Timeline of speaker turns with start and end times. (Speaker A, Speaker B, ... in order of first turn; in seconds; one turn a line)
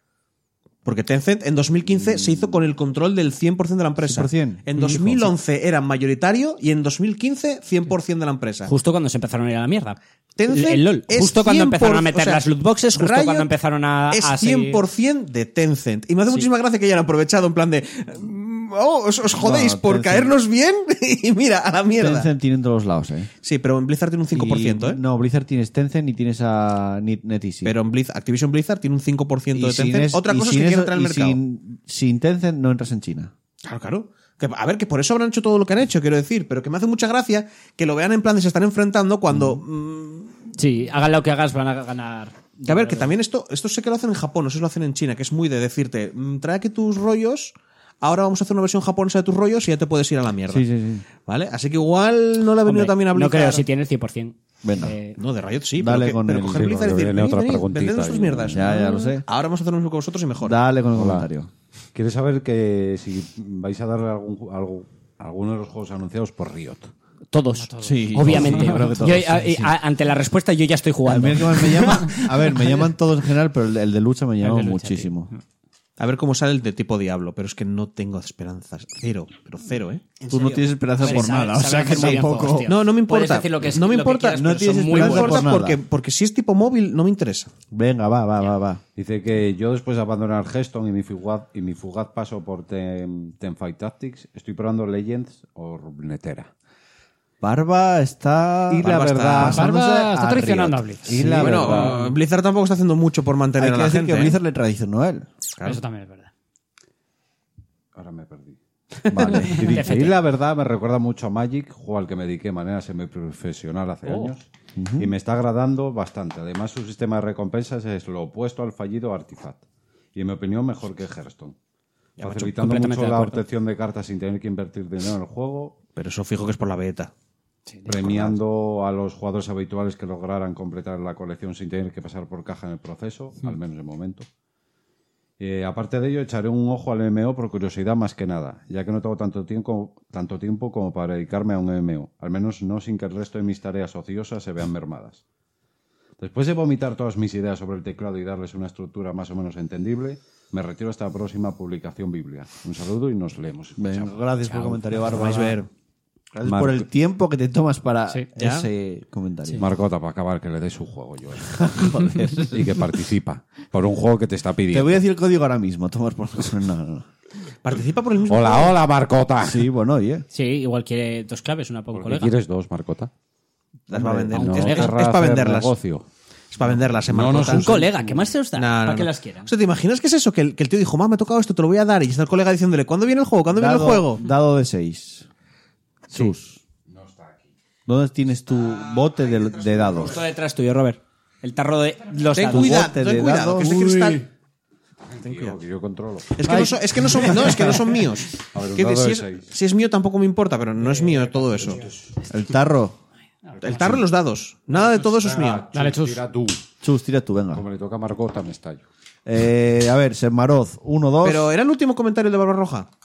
Speaker A: 0.8-8.7
Speaker B: 4.0-5.3
Speaker C: 8.7-10.0
Speaker A: 10.4-12.4
Speaker C: 10.5-14.8
Speaker A: 12.9-13.5
Speaker A: 14.1-22.3
Speaker B: 19.4-20.3
Speaker B: 22.0-23.3
Speaker A: 23.4-25.0
Speaker B: 24.3-27.8
Speaker A: 27.6-31.4
Speaker B: 29.5-33.3
Speaker A: 33.6-40.4
Speaker B: 39.3-39.6
Speaker C: 40.5-43.1
Speaker A: 42.7-50.6
Speaker B: 50.5-51.0
Speaker A: 51.2-53.6
Speaker C: 52.6-55.2
Speaker B: 54.6-54.9
Speaker A: 55.2-60.6
Speaker B: 55.8-56.7
Speaker D: 56.4-58.8
Speaker B: 58.5-59.2
Speaker B: 60.4-61.5
Speaker D: 60.9-61.3
Speaker D: 61.9-66.9
Speaker C: 67.3-72.6
Speaker E: 67.5-68.9
Speaker B: 67.8-69.7
Speaker B: 71.0-75.3
Speaker E: 74.4-75.1
Speaker A: 76.0-80.1
Speaker C: 80.2-85.5
Speaker B: 80.3-82.7
Speaker A: 82.7-87.5
Speaker B: 84.3-85.8
Speaker B: 87.7-88.8
Speaker D: 89.0-96.5
Speaker B: 97.4-102.0
Speaker D: 98.7-99.6
Speaker A: 98.8-99.6
Speaker E: 99.4-101.4
Speaker D: 101.1-102.1
Speaker A: 101.3-104.4
Speaker B: 103.6-105.3
Speaker A: 105.6-105.8
Speaker E: 105.6-106.3
Speaker D: 107.9-114.5
Speaker B: 109.1-109.8
Speaker C: 109.4-110.2
Speaker B: 114.8-115.1
Speaker D: 115.0-119.6
Speaker D: 120.1-121.5
Speaker A: 122.2-122.5
Speaker D: 122.2-125.8
Speaker C: 122.5-123.4
Speaker A: 126.0-127.1
Speaker E: 127.7-128.0
Speaker D: 127.8-134.3
Speaker D: 135.4-145.2
Speaker D: 146.2-154.1
Speaker B: 153.8-155.6
Speaker A: 155.0-155.7
Speaker B: 156.3-159.7
Speaker D: 156.4-156.8
Speaker A: 158.4-158.7
Speaker D: 159.6-165.0
Speaker B: 161.5-162.9
Speaker B: 164.7-167.1
Speaker A: 167.6-168.8
Speaker D: 168.3-169.6
Speaker B: 169.4-170.2
Speaker C: 170.3-172.3
Speaker D: 171.9-173.1
Speaker B: 173.9-174.4
Speaker A: 173.9-175.7
Speaker D: 174.3-176.0
Speaker C: 174.3-175.0
Speaker A: 176.5-177.8
Speaker D: 176.6-178.3
Speaker C: 177.3-179.5
Speaker A: 178.6-184.2
Speaker B: 183.5-185.3
Speaker B: 186.1-186.6
Speaker D: 186.9-187.4
Speaker B: 187.8-190.2
Speaker C: 190.0-192.8
Speaker A: 192.3-194.3
Speaker B: 192.5-193.8
Speaker D: 193.7-194.2
Speaker D: 195.1-196.4
Speaker A: 195.2-195.6
Speaker A: 196.3-201.8
Speaker B: 196.4-197.8
Speaker D: 198.5-199.5
Speaker E: 201.0-201.3
Speaker D: 201.7-202.1
Speaker B: 202.3-203.0
Speaker E: 203.5-203.9
Speaker A: 203.6-205.7
Speaker D: 204.7-206.6
Speaker E: 205.7-206.2
Speaker B: 206.8-207.6
Speaker D: 207.5-208.8
Speaker B: 209.2-211.5
Speaker A: 211.2-212.9